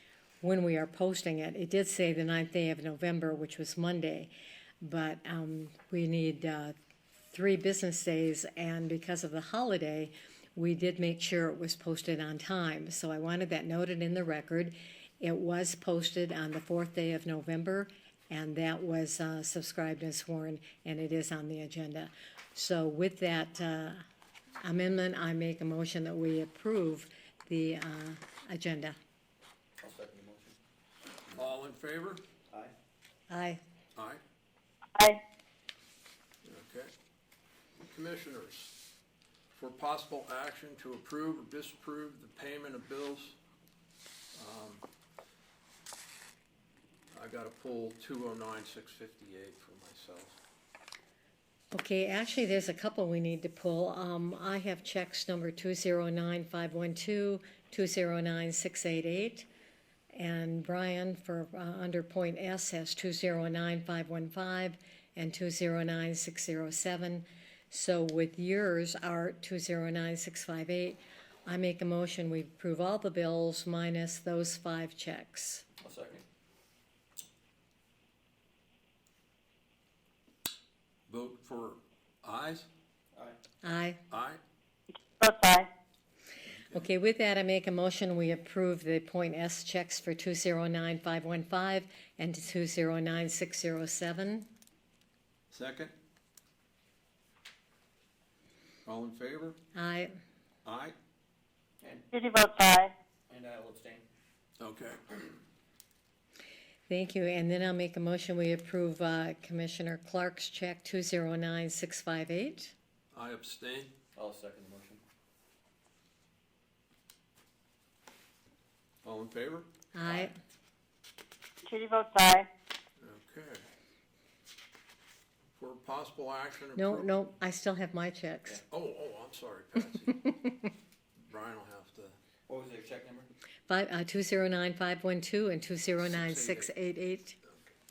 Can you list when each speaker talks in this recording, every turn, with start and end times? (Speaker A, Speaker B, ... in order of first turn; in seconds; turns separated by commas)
Speaker A: 0.4-6.8, Speaker A: 7.3-24.0, Speaker A: 24.6-29.0, Speaker B: 29.8-30.6, Speaker C: 31.3-32.2, Speaker A: 33.3-33.6, Speaker C: 34.0-34.2, Speaker D: 35.0-35.2, Speaker C: 36.5-36.9, Speaker C: 37.8-38.8, Speaker C: 39.6-43.4, Speaker C: 44.4-44.8, Speaker C: 47.1-50.4, Speaker A: 51.7-59.5, Speaker A: 60.1-75.6, Speaker B: 75.8-76.2, Speaker C: 81.1-82.7, Speaker A: 83.6-84.0, Speaker C: 84.1-84.4, Speaker D: 85.2-85.7, Speaker C: 86.4-86.9, Speaker A: 86.7-94.5, Speaker C: 95.5-95.9, Speaker C: 98.8-99.6, Speaker A: 99.8-100.1, Speaker C: 100.7-101.0, Speaker D: 102.1-102.9, Speaker B: 103.3-104.0, Speaker C: 104.6-105.3, Speaker A: 106.9-112.7, Speaker C: 113.1-113.9, Speaker B: 114.2-115.0, Speaker C: 119.0-120.3, Speaker A: 119.9-120.3, Speaker D: 121.7-122.5, Speaker C: 123.0-123.7, Speaker C: 125.6-127.1, Speaker A: 126.8-128.6, Speaker C: 128.7-130.5, Speaker C: 131.2-132.2, Speaker B: 132.5-133.3, Speaker A: 133.7-137.4, Speaker C: 136.0-136.7, Speaker C: 137.4-137.7